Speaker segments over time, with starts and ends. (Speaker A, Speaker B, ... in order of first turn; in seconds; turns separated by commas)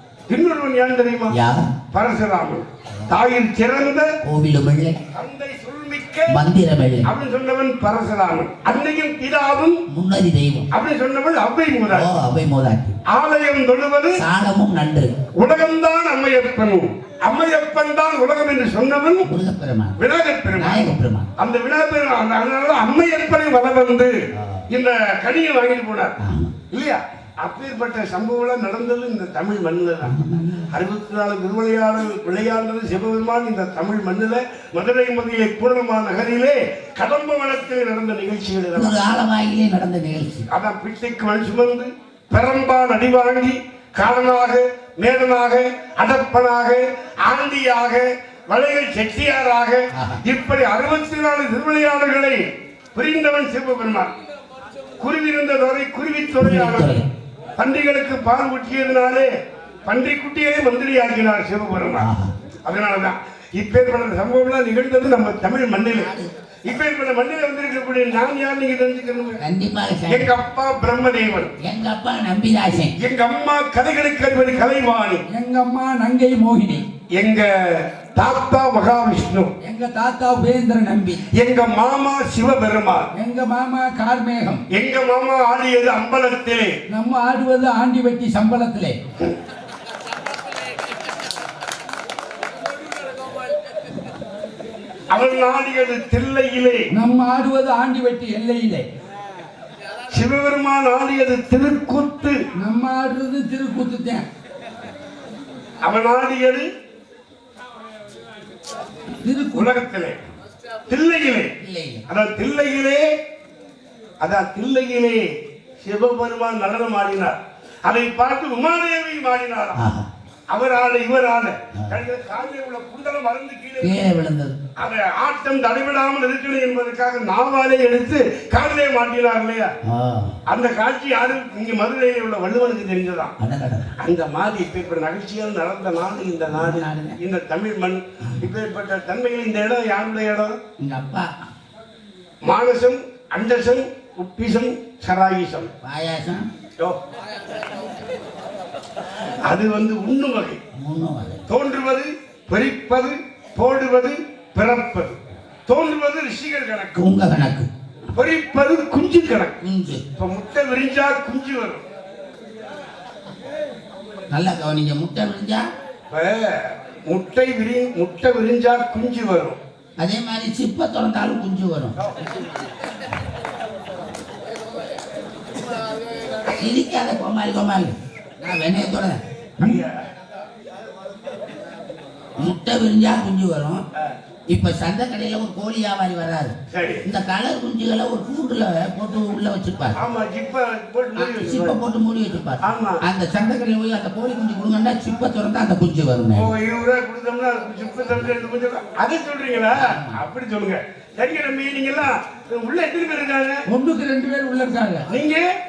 Speaker A: 0.3-1.4, Speaker B: 1.3-1.7, Speaker A: 1.9-4.1, Speaker B: 4.2-5.0, Speaker A: 5.1-6.4, Speaker B: 6.3-7.1, Speaker A: 7.0-9.8, Speaker B: 9.9-10.7, Speaker A: 10.7-12.1, Speaker B: 11.9-13.0, Speaker A: 13.1-14.2, Speaker B: 14.2-15.1, Speaker A: 15.4-19.3, Speaker B: 19.2-20.0, Speaker A: 20.0-24.1, Speaker B: 20.6-21.3, Speaker B: 24.4-24.6, Speaker A: 24.7-26.2, Speaker B: 26.2-26.6, Speaker A: 26.7-30.1, Speaker B: 30.0-30.7, Speaker A: 30.7-39.0, Speaker B: 38.8-40.5, Speaker A: 40.5-52.4, Speaker B: 49.9-50.2, Speaker A: 53.0-54.1, Speaker A: 55.0-57.0, Speaker B: 56.4-57.1, Speaker A: 57.6-59.3, Speaker A: 59.9-62.1, Speaker B: 62.0-62.3, Speaker A: 62.6-66.1, Speaker B: 65.9-66.3, Speaker A: 66.7-69.4, Speaker B: 69.4-70.3, Speaker A: 70.1-71.5, Speaker B: 71.6-72.9, Speaker A: 73.0-75.2, Speaker C: 75.3-76.8, Speaker A: 77.1-79.5, Speaker C: 79.6-81.2, Speaker A: 81.3-83.1, Speaker C: 83.1-84.6, Speaker A: 84.7-86.7, Speaker C: 86.9-89.0, Speaker A: 95.1-96.9, Speaker C: 96.9-98.9, Speaker A: 100.1-102.4, Speaker C: 102.6-104.3, Speaker A: 105.8-106.7, Speaker C: 109.2-109.7, Speaker A: 109.5-110.2, Speaker A: 110.9-111.5, Speaker B: 111.6-112.0, Speaker A: 112.1-113.0, Speaker A: 114.2-115.3, Speaker A: 115.8-119.8, Speaker B: 119.8-120.1, Speaker A: 120.5-124.0, Speaker B: 123.8-124.6, Speaker A: 124.8-129.7, Speaker B: 129.9-130.4, Speaker A: 130.5-133.3, Speaker B: 133.4-134.0, Speaker A: 134.0-140.6, Speaker B: 136.5-137.2, Speaker B: 140.8-141.3, Speaker A: 142.4-145.7, Speaker B: 145.8-146.5, Speaker A: 149.4-150.6, Speaker B: 150.8-151.4, Speaker A: 151.5-156.9, Speaker B: 156.9-157.7, Speaker A: 158.1-159.6, Speaker B: 159.6-160.0, Speaker A: 160.2-161.8, Speaker B: 164.3-165.7, Speaker A: 166.1-169.6, Speaker B: 170.0-171.9, Speaker B: 176.6-179.8, Speaker A: 179.6-180.0, Speaker B: 182.4-183.8, Speaker B: 184.5-190.0, Speaker A: 186.7-187.1, Speaker A: 190.0-191.8, Speaker B: 191.2-196.5, Speaker A: 192.6-193.0, Speaker A: 196.3-203.6, Speaker B: 199.8-200.2, Speaker C: 203.7-205.1, Speaker A: 205.1-205.5